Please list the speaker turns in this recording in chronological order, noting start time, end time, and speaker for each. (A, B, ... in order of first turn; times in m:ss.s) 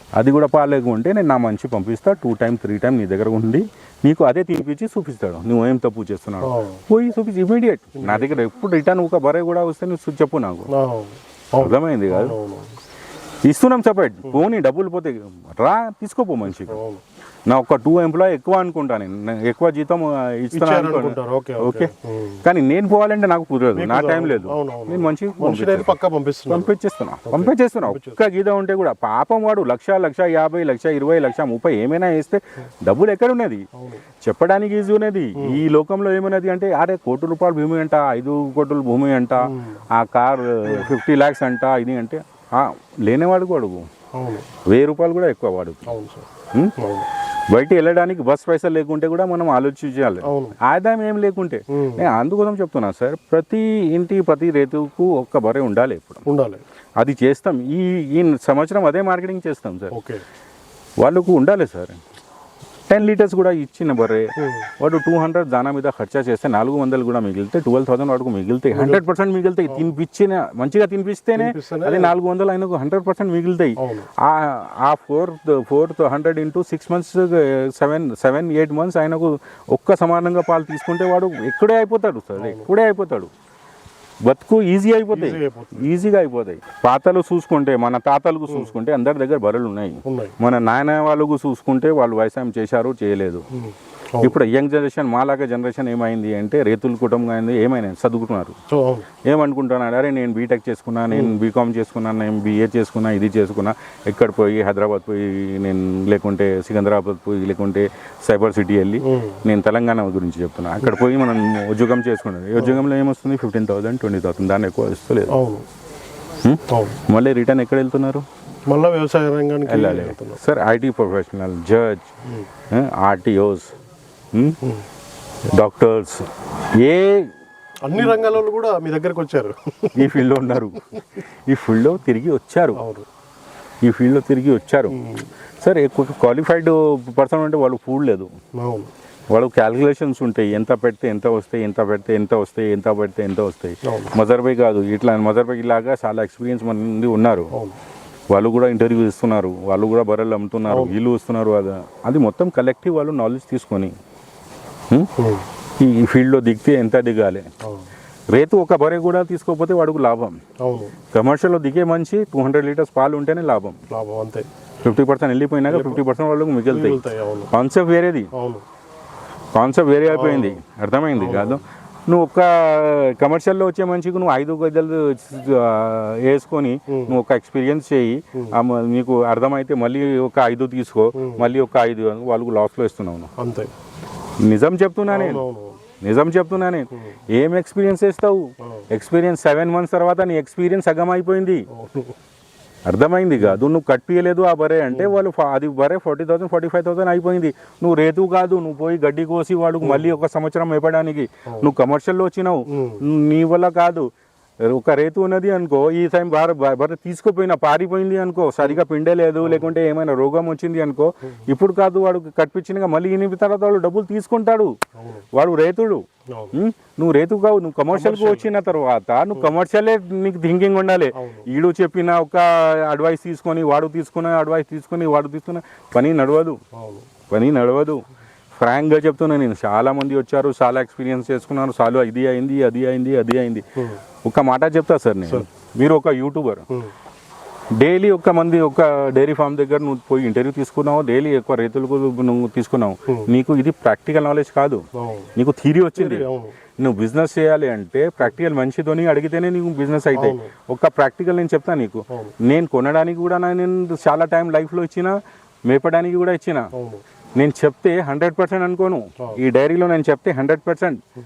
0:00.2-0:10.7 A
0:06.4-0:06.8 B
0:08.0-0:08.3 B
0:10.7-0:12.7 B
0:11.6-0:12.3 A
0:13.4-0:16.8 A
0:16.5-0:17.0 B
0:17.5-0:21.9 A
0:20.5-0:22.4 B
0:22.4-0:26.0 A
0:23.7-0:26.7 B
0:26.5-0:33.6 A
0:27.3-0:28.2 B
0:33.7-0:34.0 B
0:34.2-0:43.9 A
0:39.4-0:39.8 B
0:40.6-0:40.9 B
0:44.1-0:44.5 B
0:44.6-0:45.9 A
0:45.9-0:47.1 B
0:47.5-0:56.2 A
0:50.2-0:50.6 B
0:51.7-0:52.1 B
0:56.2-0:56.6 B
0:57.0-0:59.9 A
0:59.9-1:00.2 B
1:01.0-1:02.0 A
1:02.9-1:23.3 A
1:04.4-1:04.7 B
1:08.7-1:09.0 B
1:11.4-1:12.1 B
1:13.8-1:14.1 B
1:22.4-1:22.7 B
1:24.2-1:33.4 A
1:25.1-1:25.9 B
1:30.0-1:30.4 B
1:33.5-1:34.3 B
1:34.2-1:38.6 A
1:38.7-1:39.1 B
1:39.2-1:55.4 A
1:49.0-1:49.4 B
1:55.3-1:55.6 B
1:56.4-1:58.2 A
1:56.7-1:57.0 B
1:58.7-2:00.4 B
1:59.7-2:02.1 A
2:02.7-2:03.7 A
2:04.3-2:04.6 A
2:05.5-2:07.3 A
2:07.8-2:10.2 B
2:09.9-2:12.8 A
2:12.8-2:13.1 B
2:13.8-2:15.0 A
2:14.9-2:15.3 B
2:15.6-2:18.3 A
2:18.6-2:18.9 B
2:19.3-2:27.5 A
2:23.8-2:24.1 B
2:28.3-2:33.9 A
2:30.7-2:31.0 B
2:35.2-2:35.5 B
2:35.8-2:37.5 A
2:37.6-2:37.9 B
2:38.3-2:40.4 A
2:40.6-2:40.9 B
2:41.1-2:43.8 A
2:43.9-2:44.5 B
2:44.8-2:47.0 A
2:45.7-2:46.0 B
2:46.6-2:47.5 B
2:47.5-2:48.3 A
2:48.3-2:48.6 B
2:49.5-3:03.3 A
2:50.1-2:50.6 B
2:51.2-2:51.6 B
2:56.9-2:57.2 B
3:01.1-3:01.5 B
3:03.4-3:03.7 B
3:04.4-3:05.4 A
3:05.1-3:05.8 B
3:06.0-3:11.6 A
3:08.6-3:08.9 B
3:11.7-3:12.2 B
3:12.9-3:24.1 A
3:14.9-3:15.2 B
3:21.4-3:21.7 B
3:22.7-3:23.0 B
3:24.6-3:34.7 A
3:29.4-3:29.7 B
3:34.9-3:35.2 B
3:35.3-3:46.6 A
3:36.3-3:36.6 B
3:37.9-3:38.5 B
3:41.1-3:41.5 B
3:46.7-3:47.1 B
3:47.3-3:48.0 A
3:48.6-3:53.7 A
3:54.2-3:56.6 A
3:57.8-4:06.2 A
4:04.9-4:05.3 B
4:06.0-4:06.6 B
4:06.8-4:16.7 A
4:10.1-4:10.5 B
4:16.7-4:17.0 B
4:17.4-4:21.0 A